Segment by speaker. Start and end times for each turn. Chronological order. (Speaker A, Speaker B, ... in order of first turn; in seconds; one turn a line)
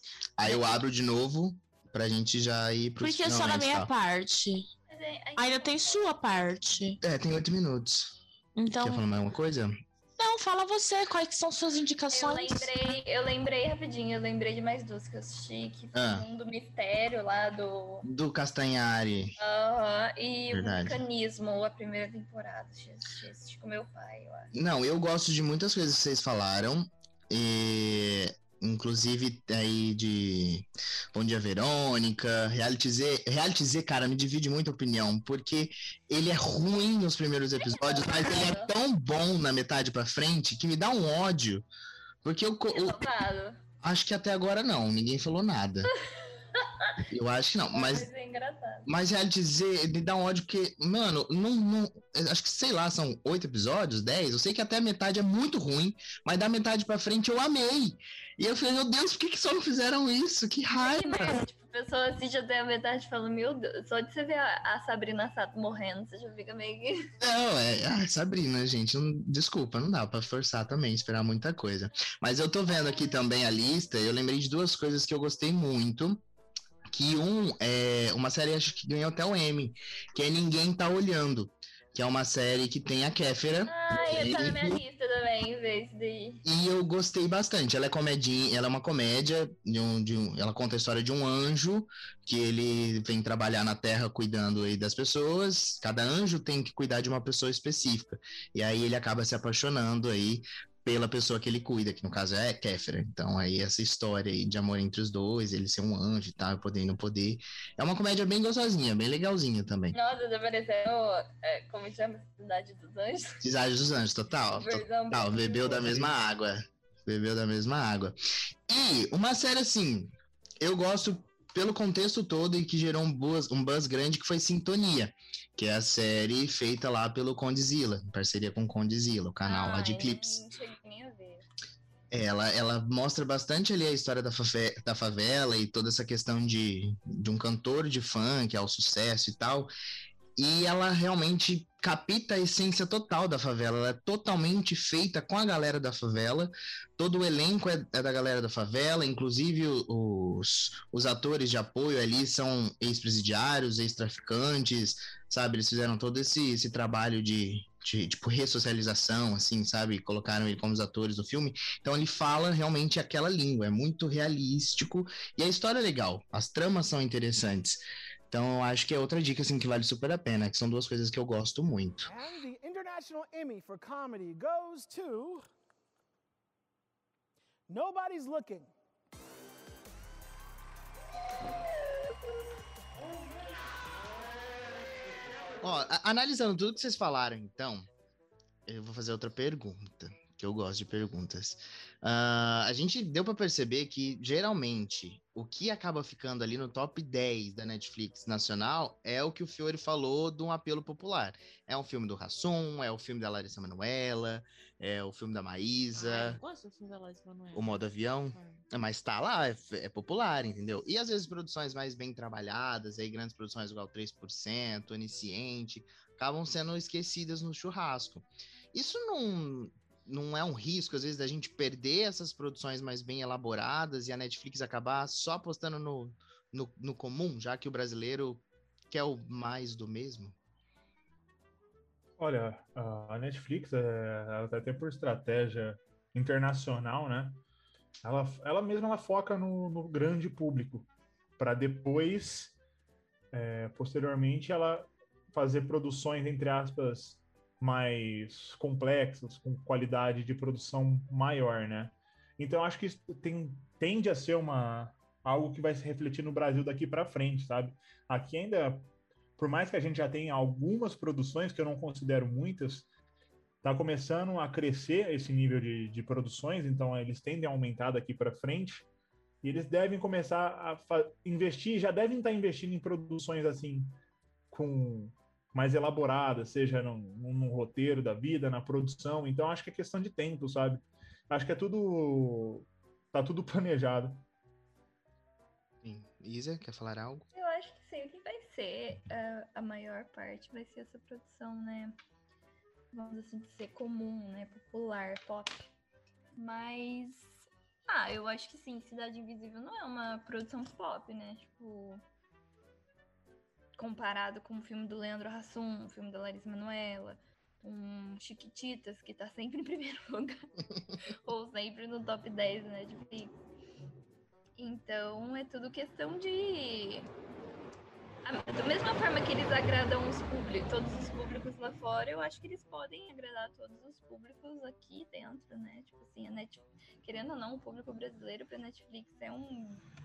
Speaker A: 0.4-3.9
Speaker B: 0.4-0.8
Speaker B: 3.0-4.7
Speaker C: 4.9-6.5
Speaker B: 5.4-7.0
Speaker A: 7.0-8.2
Speaker B: 8.6-9.0
Speaker A: 8.8-9.8
Speaker B: 10.2-12.9
Speaker C: 12.1-18.1
Speaker A: 15.9-16.3
Speaker A: 18.1-19.4
Speaker C: 19.4-24.5
Speaker A: 20.5-21.0
Speaker A: 24.5-41.7
Speaker C: 37.6-38.7
Speaker A: 42.2-43.0
Speaker C: 42.7-43.6
Speaker A: 43.8-45.9
Speaker C: 46.6-46.9
Speaker A: 47.1-48.1
Speaker C: 47.7-48.9
Speaker A: 48.9-61.4
Speaker C: 60.7-67.0
Speaker A: 67.2-76.2
Speaker A: 76.9-84.8
Speaker C: 83.7-86.4
Speaker A: 86.4-110.0
Speaker C: 109.9-113.4
Speaker A: 113.4-118.2
Speaker C: 114.6-116.1
Speaker A: 118.7-130.5
Speaker C: 129.4-131.4
Speaker A: 132.1-139.7
Speaker A: 140.4-172.1
Speaker D: 172.0-175.5
Speaker D: 177.7-178.7
Speaker A: 185.6-187.9
Speaker A: 188.7-206.4
Speaker B: 205.9-208.6
Speaker A: 207.5-230.3
Speaker E: 232.2-237.4
Speaker E: 238.0-242.6
Speaker E: 243.3-262.9
Speaker E: 263.6-268.9
Speaker E: 269.4-273.9
Speaker E: 274.5-284.2
Speaker A: 285.8-287.3
Speaker C: 287.3-292.0
Speaker C: 292.9-295.7
Speaker C: 296.4-297.3
Speaker C: 297.9-302.0
Speaker C: 303.8-310.4
Speaker C: 311.1-313.3
Speaker C: 314.6-317.1
Speaker C: 318.2-329.9